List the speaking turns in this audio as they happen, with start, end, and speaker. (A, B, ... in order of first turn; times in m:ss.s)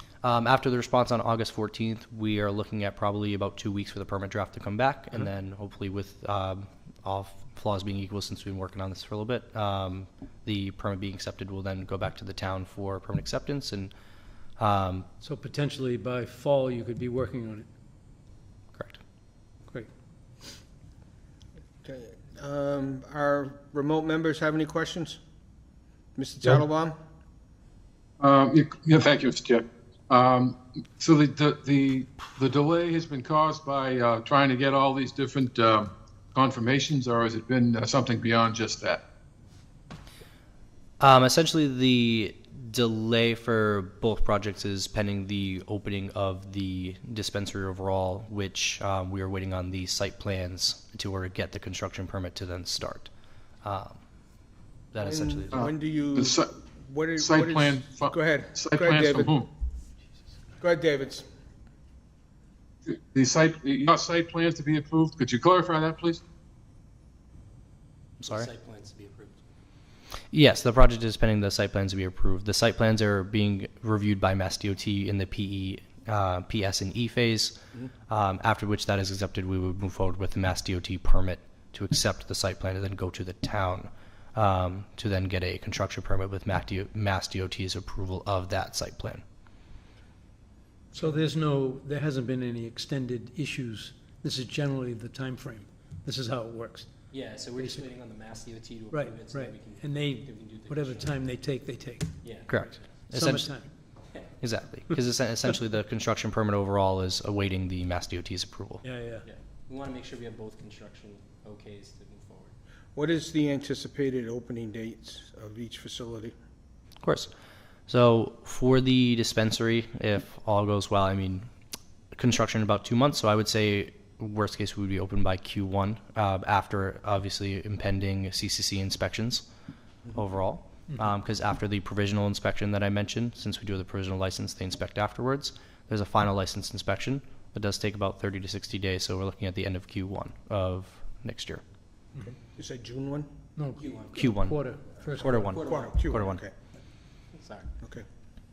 0:00.2-0:13.9 A
0:14.6-0:15.1 A
0:15.2-0:17.7 B
0:18.7-0:19.0 A
0:21.8-0:25.2 C
0:26.2-0:27.0 C
0:28.2-0:39.0 D
0:41.0-0:53.1 A
0:53.6-0:54.0 A
0:54.9-0:55.7 A
0:55.0-0:59.3 C
0:55.5-0:56.5 D
0:57.2-0:59.5 D
1:00.6-1:01.2 C
1:02.8-1:06.2 D
1:08.2-1:08.5 A
1:08.3-1:09.4 E
1:10.3-1:17.6 A
1:18.1-1:29.2 A
1:30.9-1:36.9 B
1:37.1-1:41.2 E
1:37.6-1:37.8 B
1:38.9-1:42.3 B
1:42.2-1:42.9 E
1:42.5-1:43.5 A
1:43.1-1:43.7 B
1:44.4-1:48.8 A
1:48.8-1:49.2 B
1:49.2-1:52.5 E
1:52.9-1:56.3 C
1:57.0-1:57.3 A
1:57.9-2:01.5 A
2:02.1-2:09.4 A
2:10.1-2:21.6 A
2:22.3-2:23.3 C
2:23.6-2:25.6 B
2:23.8-2:24.3 E
2:24.2-2:24.6 A
2:25.2-2:26.4 A
2:25.3-2:26.5 C
2:25.4-2:25.9 E
2:27.3-2:27.7 E